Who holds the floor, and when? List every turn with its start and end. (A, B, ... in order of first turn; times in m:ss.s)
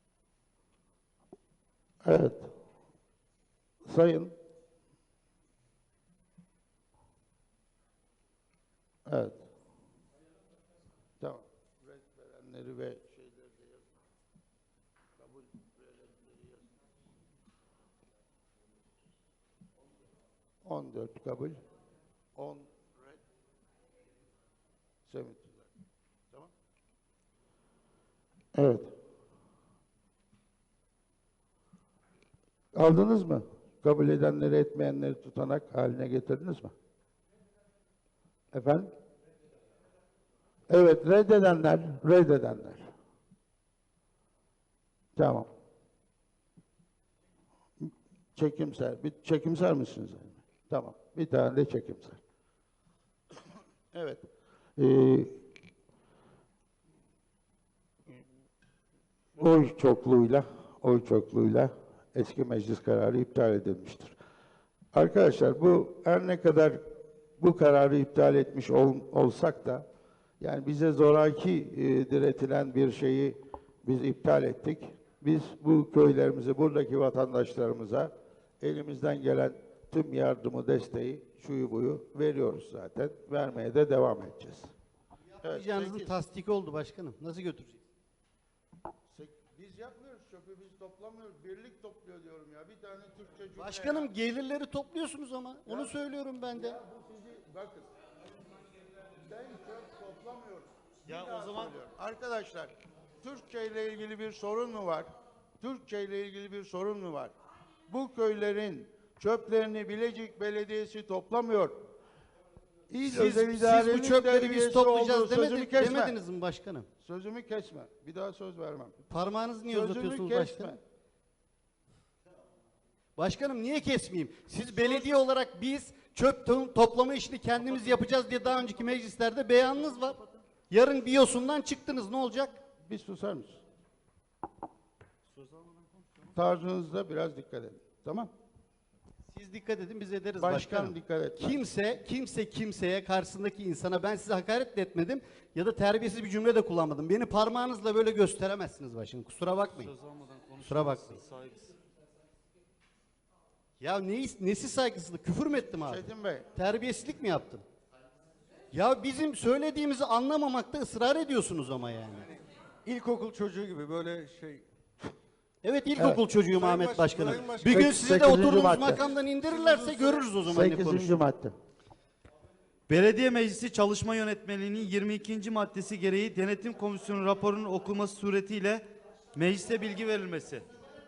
0:02.0-0:02.5 A
0:03.8-0:04.3 A
0:09.1-0:09.4 A
0:11.2-0:13.8 A
0:15.2-0:16.6 A
0:20.6-0:21.6 A
0:22.4-0:23.2 A
0:25.1-0:25.7 A
0:28.6-0:28.9 A
0:32.7-0:36.7 A
0:38.5-0:38.9 A
0:40.7-0:42.9 A
0:45.2-0:45.5 A
0:47.8-0:52.2 A
0:53.9-0:54.2 A
0:54.8-0:55.4 A
0:59.4-1:04.2 A
1:04.9-1:06.8 A
1:07.4-1:09.8 A
1:10.4-1:24.7 A
1:25.4-1:27.8 B
1:25.4-1:26.1 A
1:29.1-1:34.1 A
1:33.6-1:36.8 B
1:35.7-1:35.9 A
1:36.5-1:37.9 A
1:39.2-1:45.1 A
1:41.1-1:41.8 C
1:45.6-1:47.3 A
1:47.9-1:51.8 A
1:52.9-1:56.2 A
1:53.1-1:56.9 B
1:57.0-1:59.0 A
1:59.1-2:00.8 B
1:59.7-2:00.8 A
2:03.2-2:12.6 B
2:12.8-2:13.6 A
2:16.3-2:18.3 A
2:19.3-2:29.9 B
2:20.4-2:21.6 A
2:29.7-2:31.7 C
2:30.6-2:31.2 B
2:33.8-2:37.6 B
2:35.8-2:36.5 A
2:38.7-2:42.3 B
2:42.3-2:44.7 D
2:45.6-2:51.2 B
2:46.0-2:46.2 A
2:46.5-2:48.3 D
2:47.7-2:49.0 A
2:48.9-2:50.3 D
2:50.4-2:51.5 A
2:52.9-3:00.6 C